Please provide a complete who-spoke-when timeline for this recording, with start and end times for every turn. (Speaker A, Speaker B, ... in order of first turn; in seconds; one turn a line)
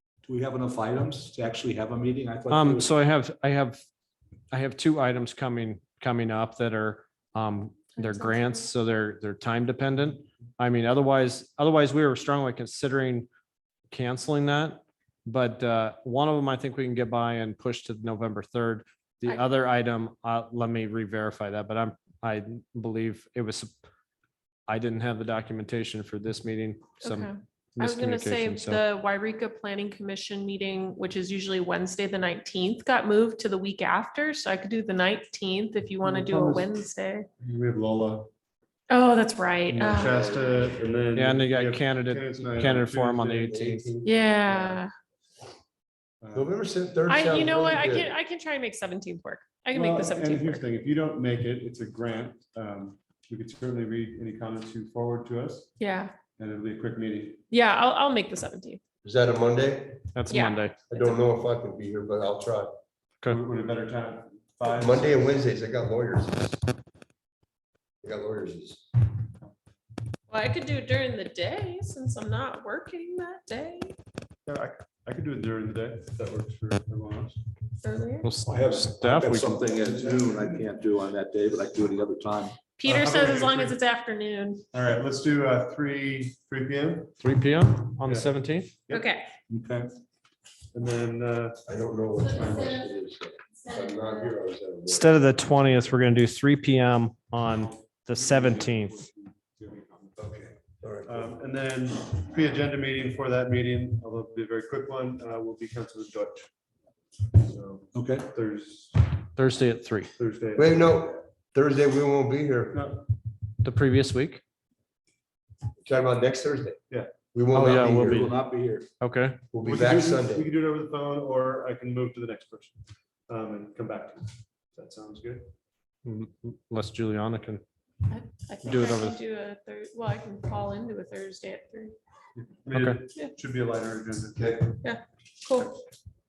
Speaker A: 0.2-2.9
Speaker B: 2.5-3.8
Speaker B: 4.5-13.3
Speaker C: 8.0-8.7
Speaker B: 13.9-23.8
Speaker B: 24.7-28.8
Speaker C: 27.0-37.3
Speaker D: 36.0-36.7
Speaker D: 37.4-38.3
Speaker C: 38.9-40.7
Speaker D: 39.7-43.6
Speaker B: 41.1-43.9
Speaker E: 43.5-44.1
Speaker C: 44.0-44.9
Speaker D: 44.4-44.8
Speaker D: 46.2-46.5
Speaker E: 46.3-48.1
Speaker C: 47.1-50.6
Speaker D: 49.7-55.7
Speaker C: 55.8-56.1
Speaker D: 56.4-57.4
Speaker C: 57.5-58.8
Speaker E: 59.0-60.1
Speaker B: 60.1-60.8
Speaker C: 60.3-61.1
Speaker E: 60.9-62.7
Speaker D: 63.3-65.3
Speaker E: 64.7-66.6
Speaker E: 68.0-68.8
Speaker C: 70.3-74.0
Speaker D: 74.5-77.4
Speaker C: 77.8-78.3
Speaker B: 78.2-79.6
Speaker A: 78.4-82.7
Speaker C: 82.8-84.6
Speaker D: 82.8-83.8
Speaker D: 84.7-87.1
Speaker B: 87.2-88.7
Speaker D: 88.0-88.3
Speaker C: 88.9-89.3
Speaker A: 89.5-89.9
Speaker D: 90.7-91.6
Speaker E: 91.7-95.3
Speaker C: 92.3-92.9
Speaker D: 92.4-92.7
Speaker C: 93.6-94.3
Speaker B: 94.9-99.0
Speaker D: 98.1-100.5
Speaker E: 100.2-101.3
Speaker D: 101.0-106.5
Speaker D: 107.3-109.1
Speaker A: 107.9-108.3
Speaker B: 109.3-110.1
Speaker D: 110.2-110.8
Speaker E: 110.5-112.8
Speaker D: 112.7-113.0
Speaker B: 113.6-114.4
Speaker E: 115.8-116.8
Speaker E: 117.3-118.3
Speaker B: 117.5-118.5
Speaker A: 118.0-118.9
Speaker B: 119.0-119.4
Speaker E: 119.5-120.5
Speaker D: 119.6-122.8
Speaker D: 123.3-125.5
Speaker B: 126.0-127.6
Speaker C: 128.1-131.9
Speaker B: 128.6-129.2
Speaker D: 132.3-134.8
Speaker B: 132.7-133.0
Speaker E: 134.3-134.7
Speaker C: 134.8-135.8